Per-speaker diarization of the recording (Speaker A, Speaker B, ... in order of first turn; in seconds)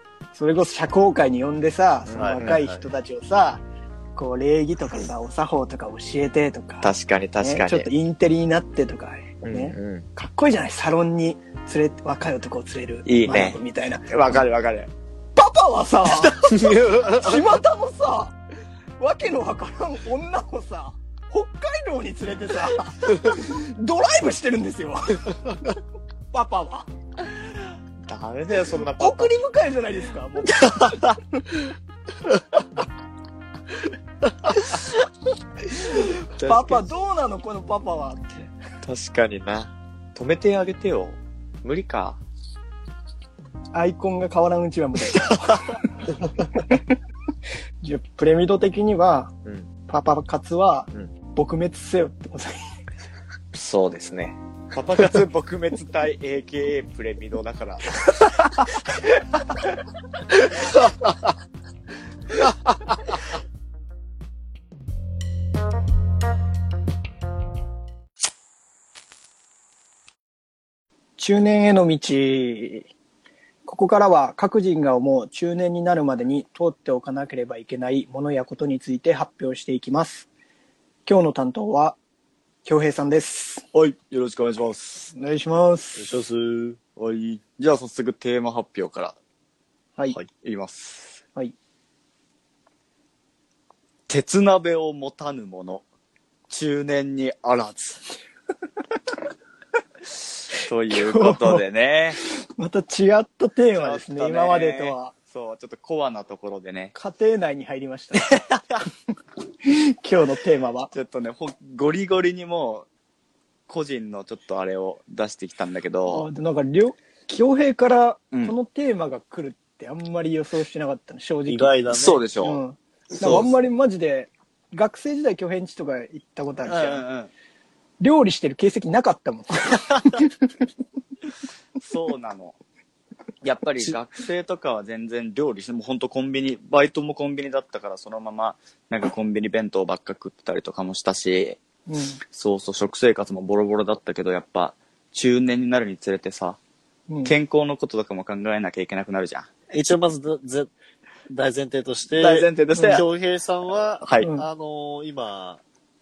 Speaker A: 0.3-3.6, 4.1-14.4, 15.3-18.4, 19.0-25.4, 26.3-26.9, 28.8-31.4, 35.7-38.5, 43.7-45.8, 46.5-46.8, 47.8-49.3, 49.9-52.6, 71.2-72.9, 73.7-80.3, 81.0-82.0, 82.6-83.6, 85.1-86.1, 100.9-101.6, 102.6-105.1, 106.9-108.3, 109.6-110.9, 116.1-121.8, 122.4-127.0, 128.0-130.3, 141.9-142.2, 147.1-147.3, 152.7-153.0, 154.2-154.4
Speaker B: 2.1-2.6, 6.8-7.9, 9.4-10.0, 13.1-14.9, 28.0-29.3, 30.6-31.1, 36.4-36.8, 38.8-42.2, 53.5-58.0, 83.7-85.1, 87.0-89.2, 90.4-91.2, 94.1-95.8, 96.5-98.0, 100.6-102.2, 103.7-106.9, 108.1-108.8, 110.9-112.9, 113.7-116.3, 121.9-122.6, 126.7-127.3, 131.8-132.6, 133.4-141.6, 142.3-146.6, 147.2-149.5, 152.1-153.0, 154.0-154.3
Speaker C: 2.1-2.8, 16.5-17.4, 86.0-86.8, 121.5-122.2, 123.2-123.5, 149.7-150.7, 151.3-155.6